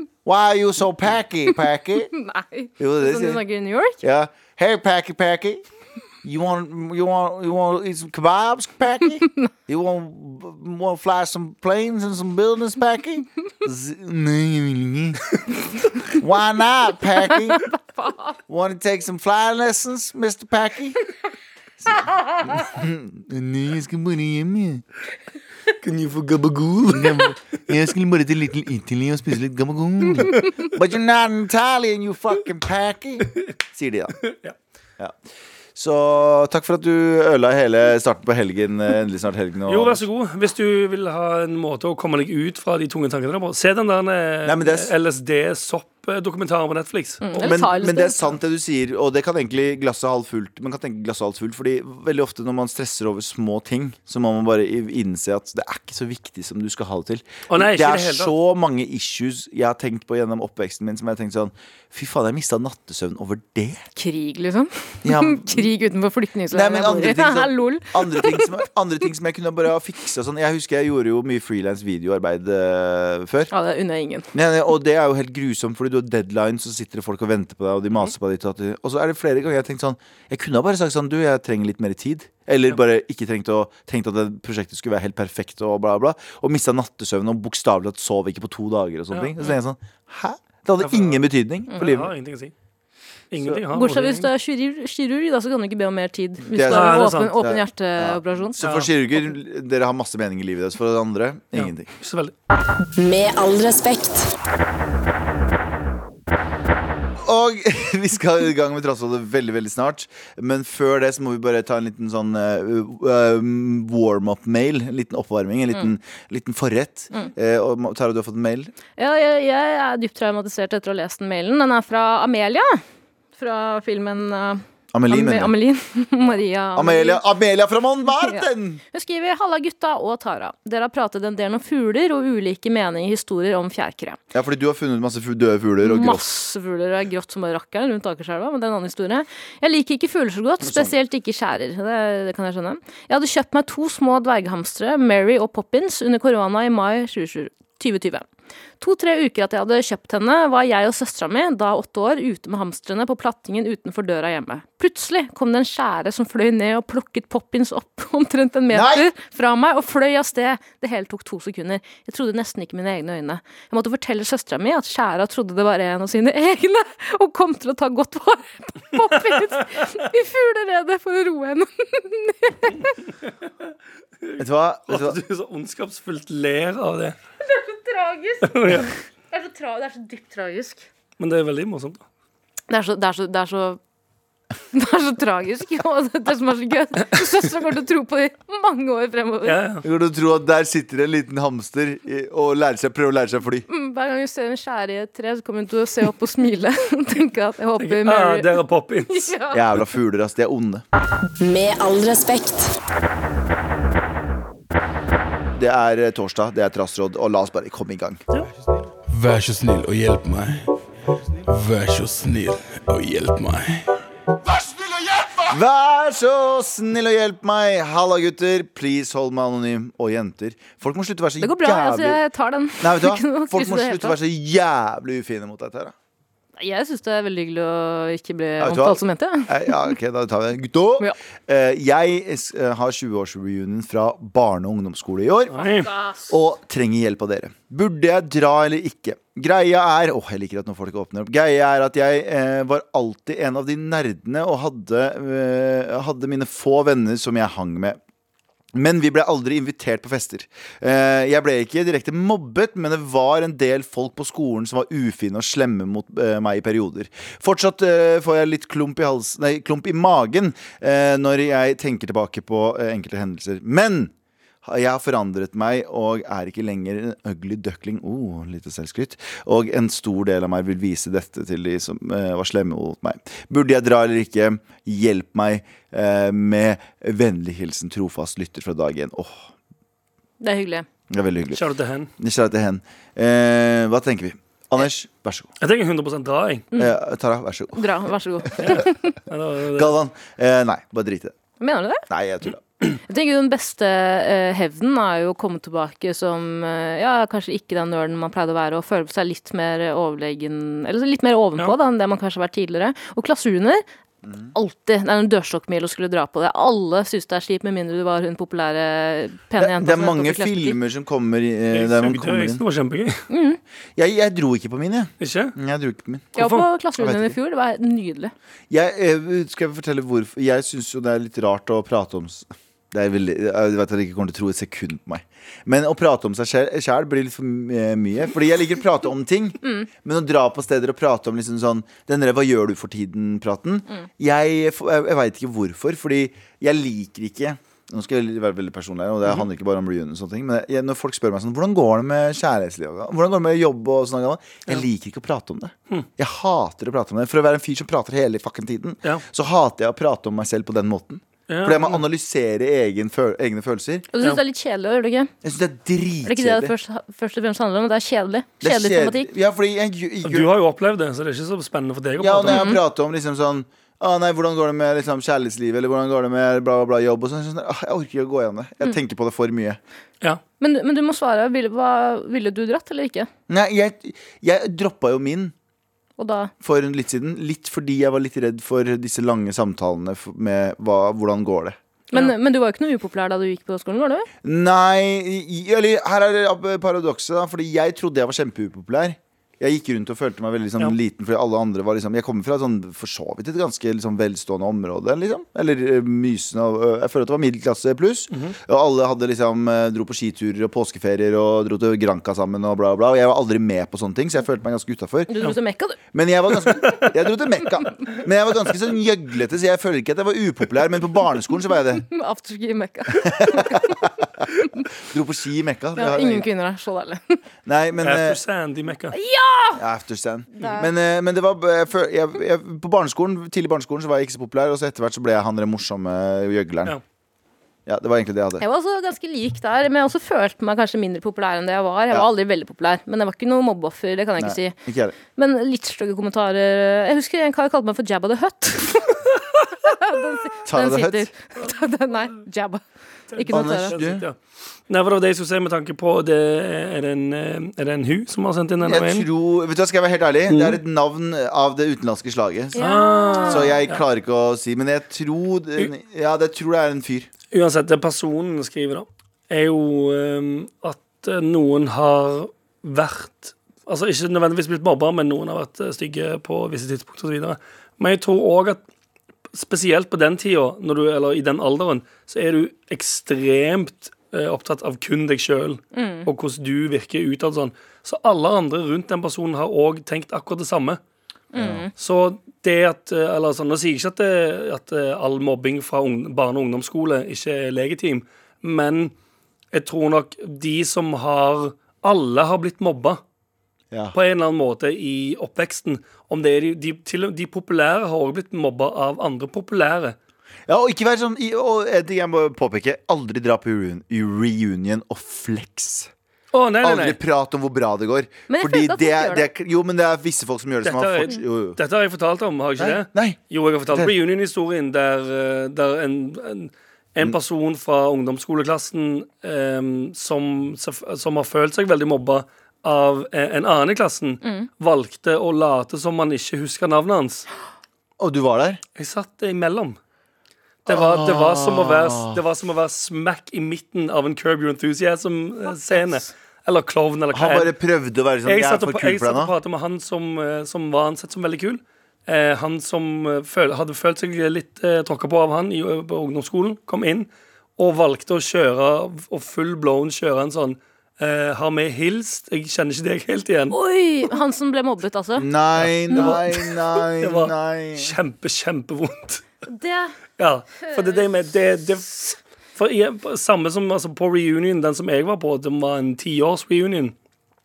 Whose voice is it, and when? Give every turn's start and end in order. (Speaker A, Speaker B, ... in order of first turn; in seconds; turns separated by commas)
Speaker A: 0.2-2.1, Speaker B: 2.1-4.0, Speaker A: 2.8-3.4, Speaker A: 4.0-5.6, Speaker A: 6.2-15.2, Speaker A: 16.1-17.6, Speaker B: 17.5-18.4, Speaker A: 18.5-21.0, Speaker A: 21.8-24.8, Speaker C: 25.7-27.3, Speaker A: 26.9-34.2, Speaker C: 34.3-34.5, Speaker A: 35.8-40.0, Speaker C: 39.7-47.5, Speaker A: 44.4-44.9, Speaker B: 47.2-48.4, Speaker A: 47.4-63.9, Speaker C: 57.5-58.3, Speaker B: 63.9-68.5, Speaker A: 65.0-65.7, Speaker A: 66.5-73.5, Speaker B: 73.5-74.3, Speaker A: 74.3-92.1, Speaker C: 89.1-89.4, Speaker C: 90.8-92.5, Speaker C: 93.3-94.3, Speaker B: 93.7-98.6, Speaker A: 96.5-101.9, Speaker C: 96.6-97.4, Speaker C: 98.6-98.9, Speaker C: 101.5-102.3, Speaker D: 103.0-104.3, Speaker A: 107.2-118.7, Speaker B: 119.0-122.8, Speaker B: 123.4-127.2, Speaker A: 124.9-125.5, Speaker A: 126.8-128.8, Speaker B: 128.2-134.2, Speaker A: 134.3-136.2, Speaker B: 135.8-148.3, Speaker A: 140.6-140.9, Speaker B: 148.8-172.9, Speaker A: 158.7-159.1, Speaker C: 174.2-177.2, Speaker A: 174.4-175.2, Speaker B: 177.4-180.9, Speaker C: 178.4-178.9, Speaker C: 181.2-182.0, Speaker B: 182.7-183.8, Speaker B: 184.7-189.6, Speaker C: 189.4-189.8, Speaker A: 189.8-193.7, Speaker B: 193.7-198.6, Speaker C: 197.8-199.3, Speaker B: 199.1-199.6, Speaker A: 199.5-200.8, Speaker D: 201.4-202.8, Speaker A: 205.6-208.2, Speaker E: 209.1-210.7, Speaker E: 211.4-214.0, Speaker A: 215.4-222.2, Speaker B: 221.4-224.2, Speaker A: 222.8-225.9, Speaker B: 226.6-229.9, Speaker A: 228.6-235.7, Speaker C: 235.5-235.9, Speaker B: 235.6-236.3, Speaker A: 236.3-248.0, Speaker A: 248.7-264.1, Speaker A: 264.6-279.5, Speaker B: 280.4-280.9, Speaker A: 281.1-281.6, Speaker C: 281.5-282.1, Speaker A: 282.2-285.5, Speaker C: 285.6-286.7, Speaker A: 286.8-287.9, Speaker B: 287.7-289.1, Speaker A: 288.4-288.9, Speaker C: 288.6-289.9, Speaker A: 289.7-291.4, Speaker B: 291.6-292.1, Speaker A: 292.1-292.6, Speaker B: 292.9-303.8, Speaker A: 304.2-304.5, Speaker B: 304.5-310.8, Speaker A: 309.6-312.6, Speaker C: 311.7-313.3, Speaker B: 313.3-313.6, Speaker A: 313.9-316.4, Speaker C: 315.2-315.6, Speaker C: 316.4-316.6, Speaker B: 316.4-318.3, Speaker A: 317.0-317.4, Speaker A: 318.7-354.1, Speaker B: 329.6-329.9, Speaker C: 351.5-352.0, Speaker B: 354.1-355.3, Speaker A: 355.4-356.7, Speaker B: 356.2-359.3, Speaker A: 358.6-360.5, Speaker C: 360.2-362.7, Speaker A: 362.2-369.8, Speaker B: 362.5-362.8, Speaker B: 370.6-373.3, Speaker A: 373.5-375.5, Speaker B: 376.2-376.5, Speaker A: 376.6-381.8, Speaker B: 382.1-384.3, Speaker A: 384.4-405.3, Speaker B: 405.3-406.0, Speaker A: 406.1-412.1, Speaker B: 412.1-414.1, Speaker A: 413.1-414.1, Speaker A: 415.0-416.5, Speaker B: 415.9-417.4, Speaker A: 417.6-418.4, Speaker C: 418.0-419.1, Speaker B: 419.1-419.8, Speaker A: 419.8-426.9, Speaker B: 420.6-420.9, Speaker A: 427.9-428.6, Speaker B: 428.6-443.9, Speaker A: 434.4-435.1, Speaker A: 440.6-441.3, Speaker C: 443.3-444.4, Speaker A: 443.5-444.2, Speaker C: 444.9-449.3, Speaker A: 448.8-452.8, Speaker C: 450.5-450.8, Speaker B: 452.8-453.8, Speaker C: 452.8-454.0, Speaker A: 453.4-457.3, Speaker C: 457.5-468.8, Speaker C: 469.5-481.0, Speaker B: 475.9-476.3, Speaker B: 481.5-481.9, Speaker A: 481.6-481.8, Speaker C: 481.9-489.1, Speaker C: 489.7-493.2, Speaker A: 493.9-494.2, Speaker C: 494.1-500.2, Speaker A: 500.7-506.1, Speaker C: 506.5-507.2, Speaker A: 506.8-511.8, Speaker B: 508.5-509.5, Speaker C: 510.8-527.5, Speaker A: 512.8-513.4, Speaker A: 528.2-528.8, Speaker C: 529.0-530.0, Speaker C: 530.9-537.7, Speaker A: 530.9-532.4, Speaker A: 537.3-539.5, Speaker C: 538.5-553.8, Speaker B: 553.7-555.5, Speaker A: 555.4-558.1, Speaker C: 555.8-559.5, Speaker B: 559.7-560.2, Speaker C: 560.4-567.1, Speaker B: 560.8-561.2